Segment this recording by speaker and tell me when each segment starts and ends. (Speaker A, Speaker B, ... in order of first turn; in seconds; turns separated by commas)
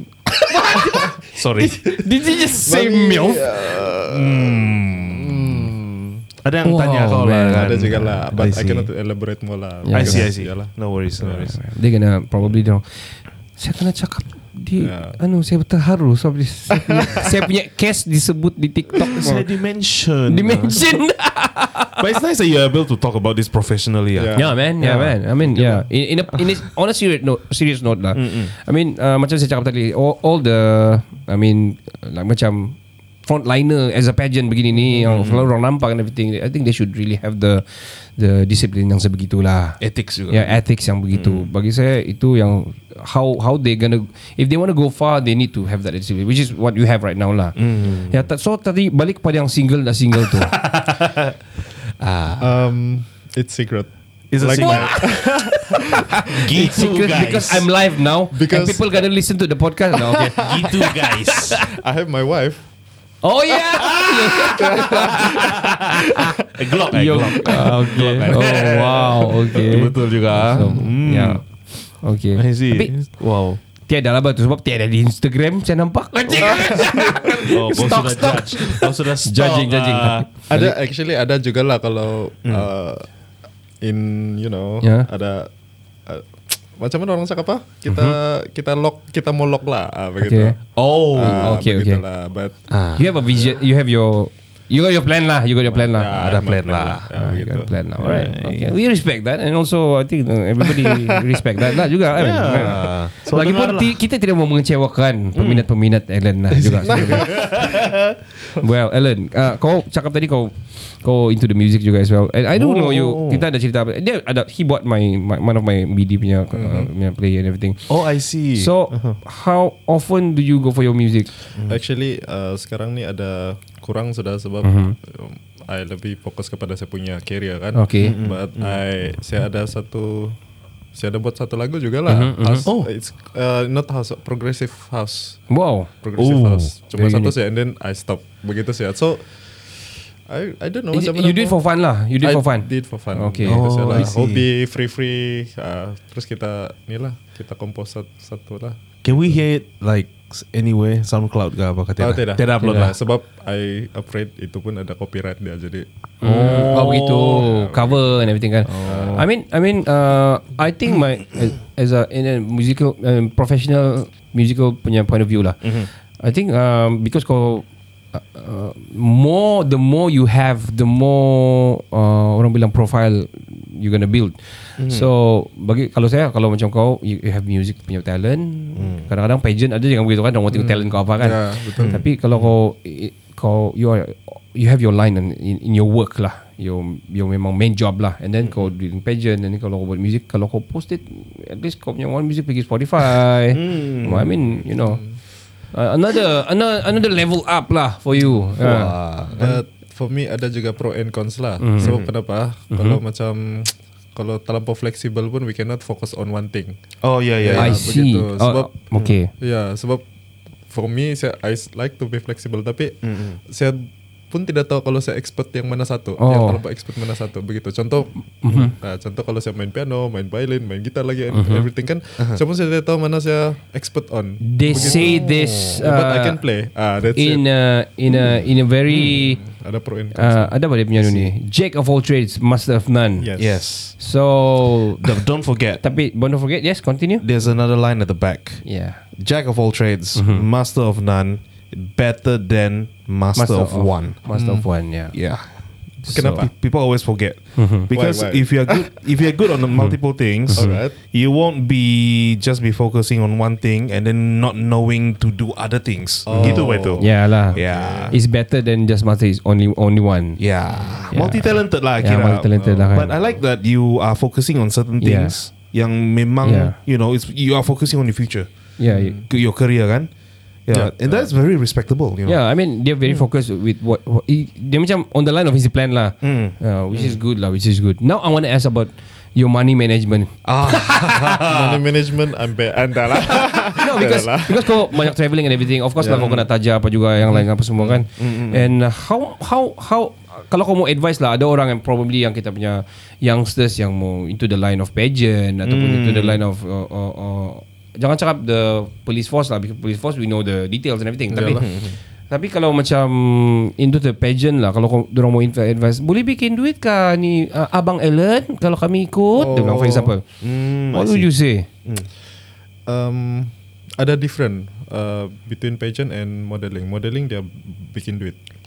Speaker A: 0.3-3.5, Speaker B: 1.3-2.0, Speaker C: 2.6-6.3, Speaker B: 4.1-5.7, Speaker B: 6.4-8.9, Speaker A: 6.7-8.1, Speaker C: 7.5-11.5, Speaker A: 9.9-10.3, Speaker B: 9.9-11.6, Speaker A: 11.6-19.4, Speaker C: 14.8-15.2, Speaker C: 16.8-17.3, Speaker B: 19.1-20.9, Speaker A: 20.3-22.0, Speaker B: 22.0-25.8, Speaker C: 24.1-24.7, Speaker A: 24.4-47.6, Speaker B: 28.1-28.5, Speaker B: 34.9-35.5, Speaker B: 39.8-40.6, Speaker B: 41.1-41.5, Speaker B: 47.6-48.3, Speaker A: 48.1-50.5, Speaker B: 50.3-51.3, Speaker B: 52.0-52.5, Speaker C: 52.4-55.8, Speaker B: 54.3-55.1, Speaker A: 54.6-60.9, Speaker B: 56.3-57.7, Speaker C: 58.3-59.1, Speaker B: 60.4-61.6, Speaker C: 61.7-62.6, Speaker A: 63.2-65.8, Speaker B: 63.8-66.0, Speaker C: 64.5-65.8, Speaker B: 66.5-71.4, Speaker A: 66.9-71.4, Speaker A: 72.0-72.9, Speaker B: 72.3-73.6, Speaker A: 73.9-80.8, Speaker B: 76.3-76.7, Speaker C: 76.6-77.4, Speaker B: 77.5-80.3, Speaker C: 80.5-83.1, Speaker C: 83.8-85.5, Speaker A: 84.8-85.1, Speaker C: 86.1-92.6, Speaker A: 87.9-88.2, Speaker A: 90.2-90.6, Speaker B: 90.8-91.6, Speaker A: 91.2-92.0, Speaker B: 92.7-93.0, Speaker A: 93.0-96.2, Speaker C: 95.7-98.2, Speaker B: 96.2-97.1, Speaker A: 97.1-107.5, Speaker B: 98.0-98.7, Speaker B: 102.1-104.0, Speaker B: 105.3-105.7, Speaker B: 106.5-108.2, Speaker C: 106.9-107.7, Speaker A: 108.6-118.0, Speaker B: 112.5-113.5, Speaker C: 116.5-116.9, Speaker B: 117.9-119.2, Speaker A: 118.6-121.3, Speaker C: 121.7-130.4, Speaker A: 124.6-125.0, Speaker A: 127.8-128.2, Speaker B: 128.0-128.8, Speaker C: 130.9-135.4, Speaker A: 132.1-132.7, Speaker A: 135.5-135.9, Speaker C: 136.0-141.6, Speaker B: 136.2-136.7, Speaker A: 136.9-137.3, Speaker A: 140.9-144.1, Speaker C: 142.2-149.4, Speaker B: 143.5-144.5, Speaker B: 149.0-152.9, Speaker C: 152.0-155.9, Speaker A: 152.6-152.9, Speaker A: 156.2-195.0, Speaker B: 156.2-157.5, Speaker C: 156.4-158.2, Speaker B: 158.7-159.3, Speaker C: 158.8-159.2, Speaker B: 165.6-165.9, Speaker B: 174.8-175.1, Speaker B: 178.8-179.1, Speaker C: 180.5-182.0, Speaker B: 181.8-182.5, Speaker B: 188.4-188.7, Speaker B: 193.5-194.5, Speaker C: 194.8-195.2, Speaker A: 195.7-198.9, Speaker B: 198.6-199.6, Speaker C: 199.4-206.8, Speaker A: 201.6-201.9, Speaker B: 201.8-202.1, Speaker A: 202.7-203.0, Speaker B: 207.0-207.9, Speaker C: 207.4-208.7, Speaker A: 207.6-209.3, Speaker C: 209.3-210.0, Speaker C: 210.7-227.4, Speaker B: 213.0-213.4, Speaker A: 216.2-216.6, Speaker A: 218.4-218.7, Speaker A: 221.3-221.7, Speaker A: 224.4-226.4, Speaker B: 224.7-225.7, Speaker A: 227.2-229.4, Speaker C: 229.0-230.6, Speaker A: 230.2-233.3, Speaker C: 233.2-233.7, Speaker B: 233.4-234.0, Speaker A: 234.0-235.2, Speaker B: 235.0-235.8, Speaker A: 235.8-237.2, Speaker B: 237.2-238.7, Speaker A: 238.7-239.0, Speaker B: 239.2-244.2, Speaker A: 240.2-240.4, Speaker A: 243.4-245.1, Speaker C: 244.3-244.7, Speaker B: 245.1-258.1, Speaker A: 246.0-246.5, Speaker C: 246.1-246.4, Speaker A: 247.6-247.9, Speaker C: 247.9-248.9, Speaker A: 250.5-250.8, Speaker C: 250.5-250.9, Speaker C: 256.3-258.2, Speaker A: 256.4-257.6, Speaker A: 258.1-260.4, Speaker B: 260.4-268.7, Speaker C: 260.7-261.1, Speaker A: 261.1-263.1, Speaker C: 262.6-263.4, Speaker A: 265.0-265.4, Speaker A: 266.4-266.8, Speaker A: 268.8-269.2, Speaker C: 268.9-269.2, Speaker B: 269.3-270.1, Speaker B: 270.7-272.4, Speaker C: 270.7-271.3, Speaker A: 272.3-281.3, Speaker B: 276.2-277.2, Speaker B: 280.4-281.8, Speaker C: 281.4-284.8, Speaker A: 283.8-301.7, Speaker C: 286.0-286.4, Speaker B: 286.1-286.4, Speaker B: 288.2-288.7, Speaker B: 295.6-296.4, Speaker C: 301.3-301.6, Speaker B: 301.5-302.0, Speaker A: 302.3-310.2, Speaker C: 309.4-310.1, Speaker B: 310.4-311.3, Speaker A: 310.9-311.7, Speaker C: 312.9-318.4